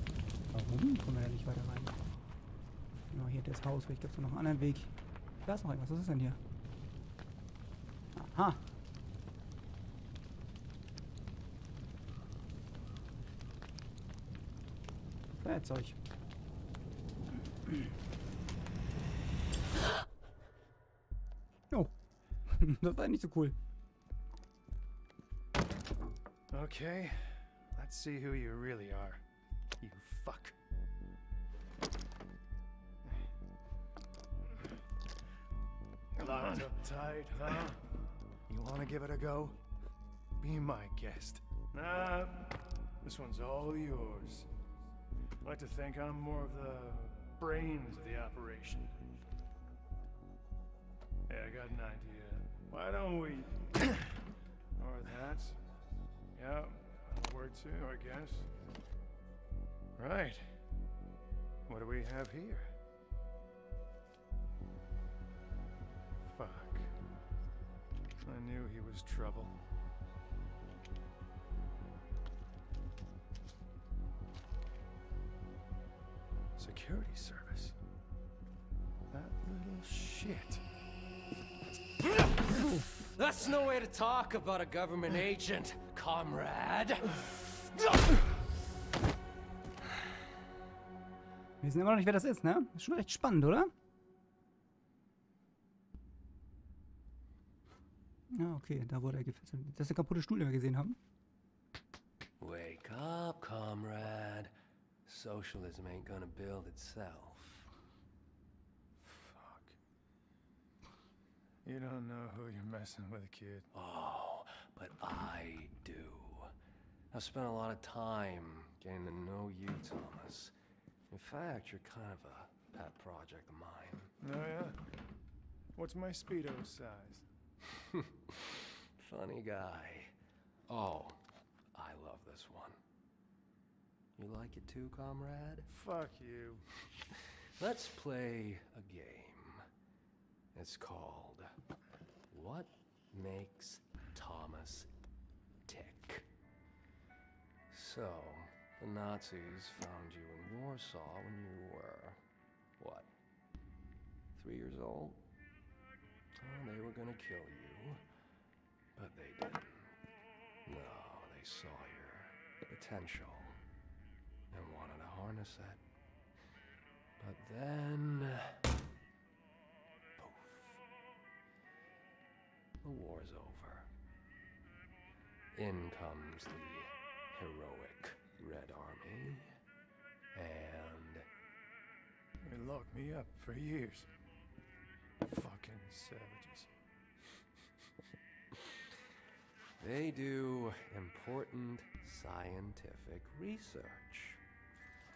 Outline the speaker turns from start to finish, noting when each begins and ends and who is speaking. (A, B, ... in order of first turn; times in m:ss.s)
0:00.5-0:01.9 A
0:03.1-0:04.9 A
0:05.4-0:06.4 A
0:08.1-0:08.6 A
0:15.4-0:16.0 A
0:17.6-0:17.9 A
0:22.4-0:23.6 A
0:26.5-0:29.2 B
0:29.8-0:30.6 B
0:36.2-0:37.8 B
0:38.5-0:39.6 B
0:40.4-0:44.5 B
0:45.4-0:48.9 B
0:51.3-0:54.0 B
0:54.8-0:55.6 B
0:56.4-0:58.5 B
1:00.0-1:00.5 B
1:01.7-1:02.7 B
1:06.3-1:06.9 B
1:08.2-1:09.6 B
1:16.6-1:17.8 B
1:19.1-1:20.6 B
1:22.5-1:28.0 C
1:31.6-1:33.7 A
1:38.3-1:41.0 A
1:42.4-1:44.5 C
1:45.1-1:47.7 C
1:49.1-1:49.8 B
1:51.6-1:53.7 B
1:53.7-1:56.5 C
1:57.1-2:00.5 C
2:01.1-2:04.1 C
2:04.2-2:04.8 B
2:05.8-2:07.2 B
2:09.0-2:10.1 C
2:10.7-2:11.2 C
2:11.7-2:12.8 C
2:14.2-2:15.7 C
2:15.7-2:16.6 B
2:17.6-2:19.6 C
2:20.5-2:21.5 C
2:22.3-2:24.9 C
2:25.7-2:26.3 C
2:27.7-2:32.2 C
2:32.8-2:33.1 C
2:34.4-2:35.2 C
2:36.4-2:38.0 C
2:39.0-2:39.9 C
2:40.7-2:43.6 C
2:44.5-2:45.8 C
2:47.2-2:48.6 C
2:50.2-2:50.8 C
2:52.8-2:53.9 C
2:55.5-2:59.5 C
3:00.3-3:01.3 C
3:02.4-3:04.1 B
3:05.2-3:06.7 B
3:09.8-3:14.4 C